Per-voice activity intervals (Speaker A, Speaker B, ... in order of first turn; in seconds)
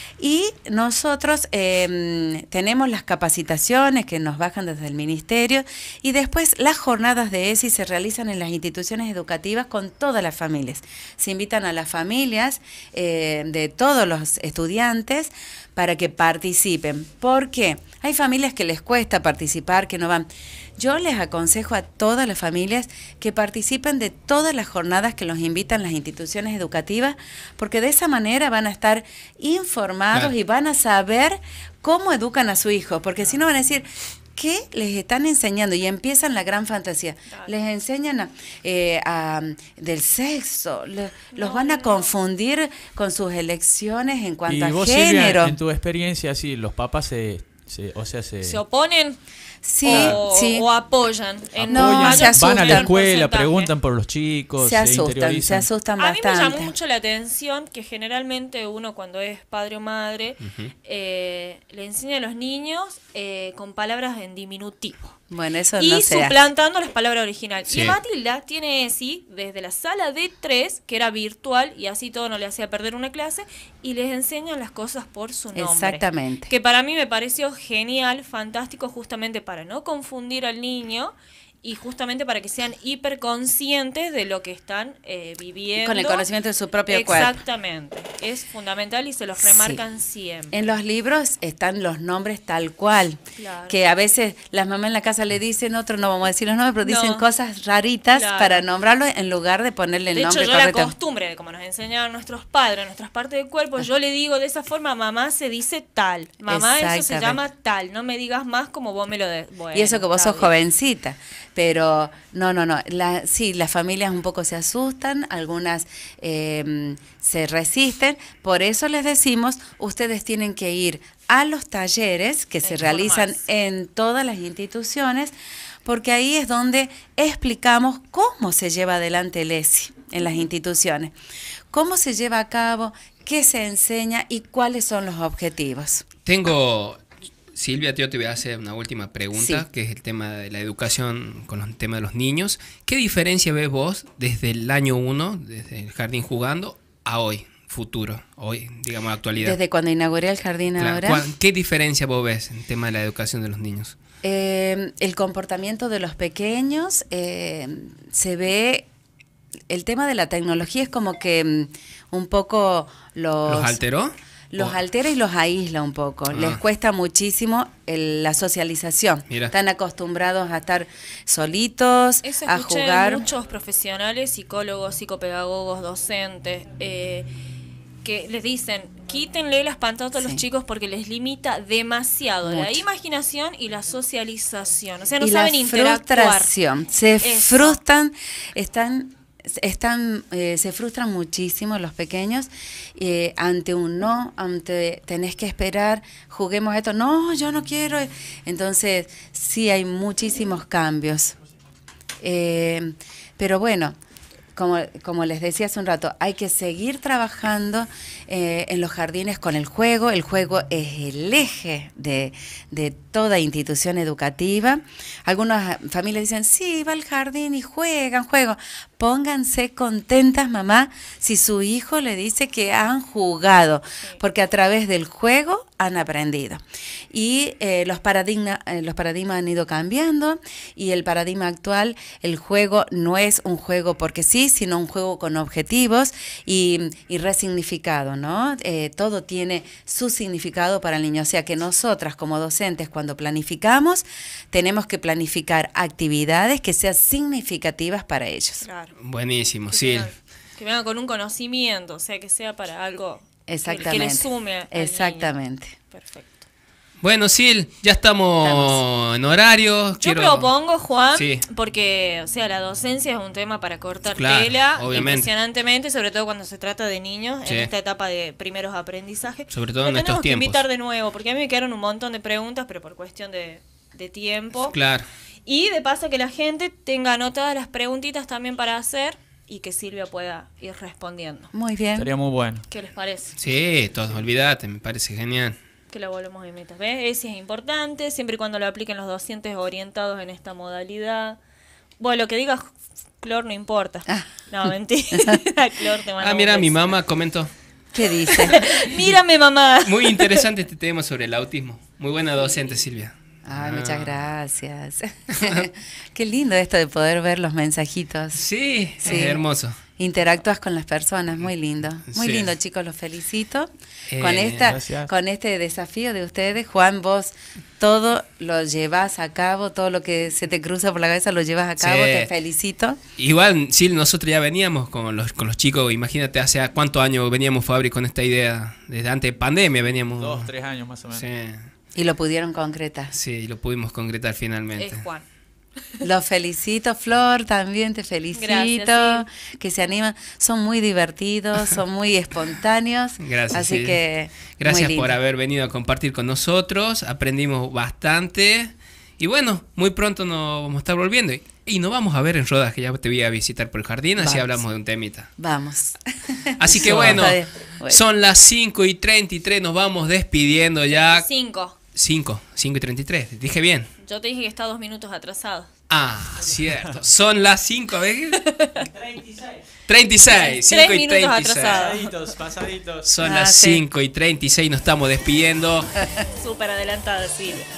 Speaker A: 0.2-45.6, 49.6-50.7, 51.7-52.9, 54.6-56.7, 65.3-66.3, 75.5-76.5, 85.8-87.4, 89.4-89.8, 90.5-100.9, 106.4-107.4, 109.7-125.3, 125.8-131.1, 131.7-136.1, 139.3-139.6, 149.4-151.2, 154.2-158.9, 159.7-163.8, 164.5-173.3, 180.2-180.4, 182.4-182.8, 185.2-201.3, 202.2-203.9, 204.5-248.7, 253.5-255.7, 258.4-258.7, 281.5-282.1, 297.9-298.9, 303.4-308.4, 309.0-309.4, 310.0-323.0, 331.9-333.1, 336.0-345.1, 354.2-354.6, 355.4-358.0, 373.2-373.8
Speaker B: 41.3-42.1, 48.4-49.2, 49.8-53.7, 56.0-65.1, 65.8-86.3, 86.9-90.5, 93.4-93.8, 96.8-97.2, 98.1-98.7, 100.1-110.5, 122.6-123.4, 172.2-177.3, 178.0-186.5, 187.2-187.8, 248.6-248.9, 249.7-255.3, 255.9-256.4, 260.0-274.7, 275.4-281.5, 282.7-283.3, 285.9-291.4, 292.0-296.9, 298.3-300.4, 334.8-335.2, 338.3-339.2, 360.9-361.7, 364.0-365.7, 368.3-368.9, 370.3-372.1, 376.3-377.6
Speaker C: 44.5-48.6, 49.9-50.1, 51.7-55.7, 281.9-282.6, 314.6-315.1, 330.2-331.2, 369.1-369.6, 371.6-373.1
Speaker D: 60.4-60.7, 67.7-68.0, 136.2-137.0, 137.5-149.6, 150.8-154.0, 163.5-164.7, 166.3-166.6, 248.9-250.1, 257.0-260.5, 261.1-261.4, 264.1-265.3, 269.5-270.6, 274.6-275.1, 283.4-285.6, 296.2-297.5, 299.8-304.3, 305.3-305.6, 308.3-309.8, 312.1-312.5, 314.1-314.7, 321.8-322.3, 323.2-330.5, 331.1-331.7, 333.1-335.0, 343.2-344.0, 344.6-355.3, 356.6-361.3, 361.9-363.9, 365.9-368.4, 369.9-371.9, 373.0-375.9